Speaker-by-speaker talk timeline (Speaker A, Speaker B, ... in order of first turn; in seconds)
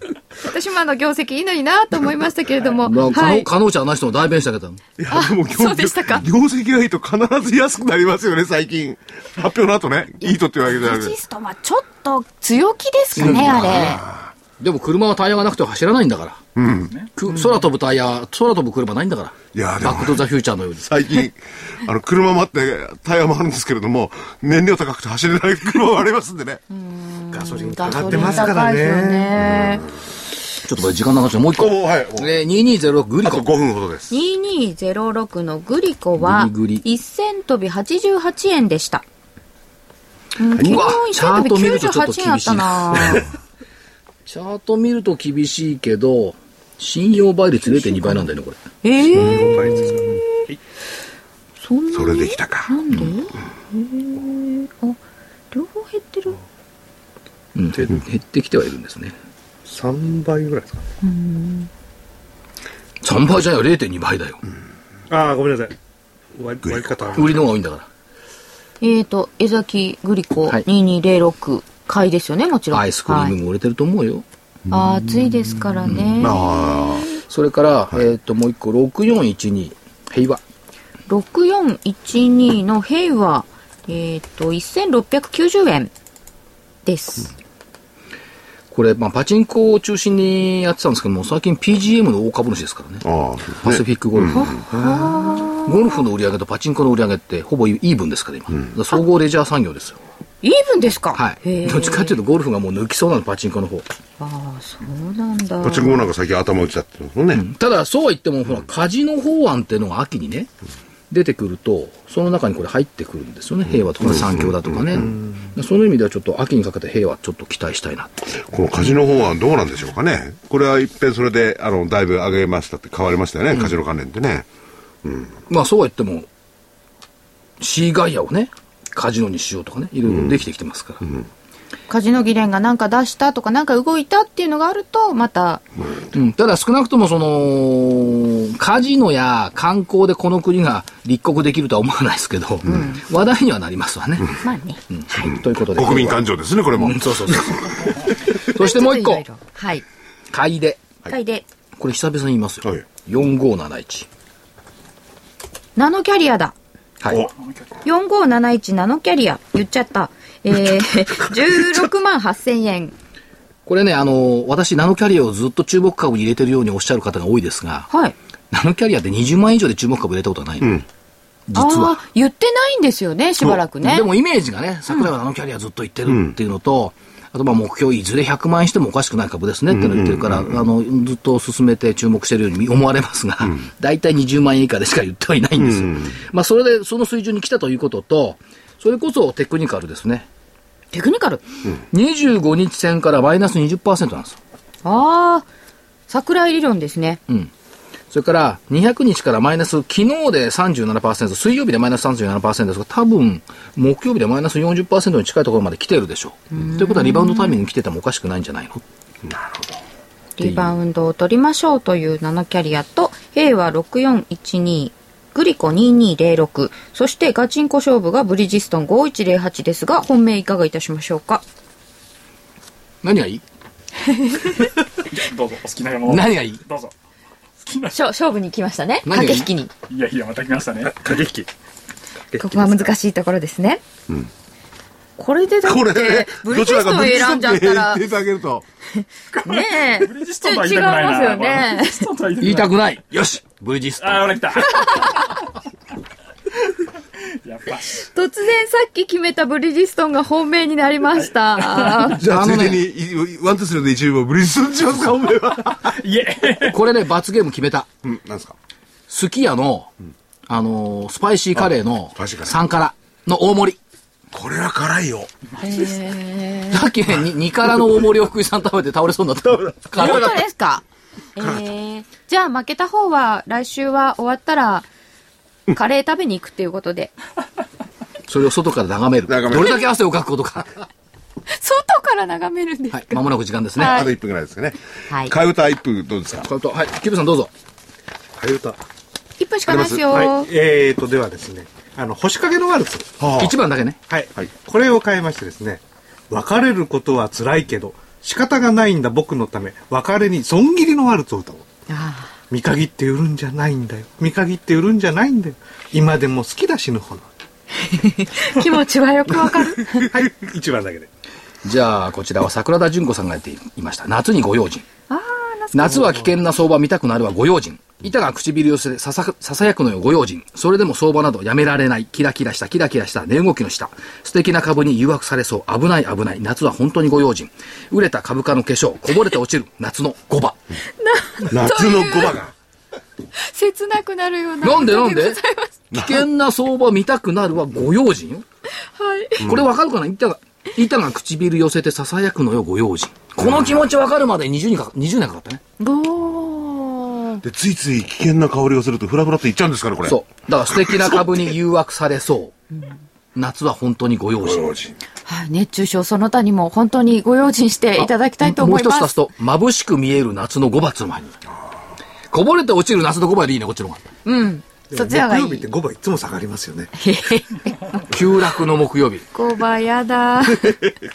Speaker A: 0.4-3.5, 5.1-6.2, 10.2-14.0, 17.3-17.6, 26.7-29.9, 34.1-39.0, 40.4-43.3, 48.8-50.5, 51.6-55.0, 55.5-56.4, 61.0-61.7, 68.8-73.3, 74.7-77.1, 81.1-85.9, 86.8-87.3, 94.3-96.0, 100.4-102.2, 104.2-106.1, 131.9-135.6, 142.6-143.0, 144.4-144.8, 148.5-149.8, 151.1-151.4, 155.8-156.5, 157.8-162.9, 167.9-168.1, 171.5-174.1, 190.9-191.4, 194.8-195.5, 196.1-197.2, 206.5-207.6, 210.4-221.4, 224.0-224.7, 227.9-229.7, 232.4-233.8, 235.2-238.1, 238.9-242.1, 244.6-245.3, 248.0-252.2, 265.6-266.9, 270.0-270.8, 271.4-274.9, 275.7-277.1, 279.5-279.9, 281.5-283.2, 283.8-284.1, 289.4-290.5, 301.9-302.3, 307.8-310.1, 315.1-316.3, 331.0-332.4, 333.3-335.7, 338.8-339.4, 345.8-347.4, 355.2-359.2, 364.2-365.7, 367.0-368.6, 369.3-370.8
Speaker B: 2.8-4.8, 13.2-14.0, 14.6-16.4, 17.1-21.2, 30.7-33.5, 36.2-36.8, 40.6-43.2, 44.2-48.6, 57.5-59.1, 63.0-64.4, 67.2-67.9, 72.7-74.2, 75.9-76.3, 77.2-80.4, 88.7-93.0, 93.6-94.6, 95.6-100.0, 101.1-103.9, 107.3-110.5, 111.1-118.4, 125.5-126.3, 127.6-131.0, 136.1-144.3, 144.9-146.2, 146.7-147.9, 148.4-149.2, 150.3-150.8, 151.8-154.1, 157.0-157.3, 163.7-167.9, 168.5-170.8, 171.5-172.0, 173.8-190.3, 191.9-194.4, 198.1-208.8, 210.4-210.7, 223.0-223.4, 226.1-226.6, 229.0-229.5, 242.4-244.6, 252.2-252.8, 256.6-257.9, 259.1-259.9, 260.5-263.8, 266.7-270.4, 278.3-280.8, 282.9-284.0, 286.4-287.5, 293.4-294.0, 311.6-314.9, 315.7-330.6, 334.6-335.4, 335.9-338.4, 339.4-345.6, 350.0-352.5, 353.3-354.6, 358.0-361.4, 362.3-364.0, 368.1-369.2
Speaker C: 5.0-11.2, 13.2-14.3, 16.6-16.9, 19.5-20.2, 20.9-26.6, 27.9-28.5, 29.4-29.8, 31.6-32.3, 33.2-34.2, 51.9-52.8, 66.6-67.2, 74.7-75.0, 75.8-77.2, 93.0-94.5, 105.6-107.4, 114.0-115.1, 118.4-124.5, 125.0-125.3, 145.7-148.0, 176.1-176.3, 179.7-180.6, 185.6-186.1, 209.2-209.8, 235.6-238.6, 252.2-256.0, 258.0-258.5, 261.6-262.6, 264.3-265.3, 269.6-270.5, 271.4-271.7, 279.3-279.8, 283.8-286.5, 289.7-290.3, 293.2-293.5, 331.5-332.5, 335.9-336.2, 343.4-343.8, 347.4-350.2, 350.8-351.2, 354.4-354.9
Speaker D: 27.3-29.3, 49.1-50.6, 59.7-60.8, 65.1-65.8, 66.3-67.4, 230.9-231.5, 232.3-232.9, 288.4-288.8, 290.1-293.2, 294.1-301.6, 302.5-307.3, 310.1-311.1, 364.9-366.9
Speaker E: 157.4-157.7, 225.1-226.9, 227.6-227.9, 229.9-231.0, 239.3-242.7, 244.0-245.4, 247.4-248.1, 251.2-252.2, 255.7-256.8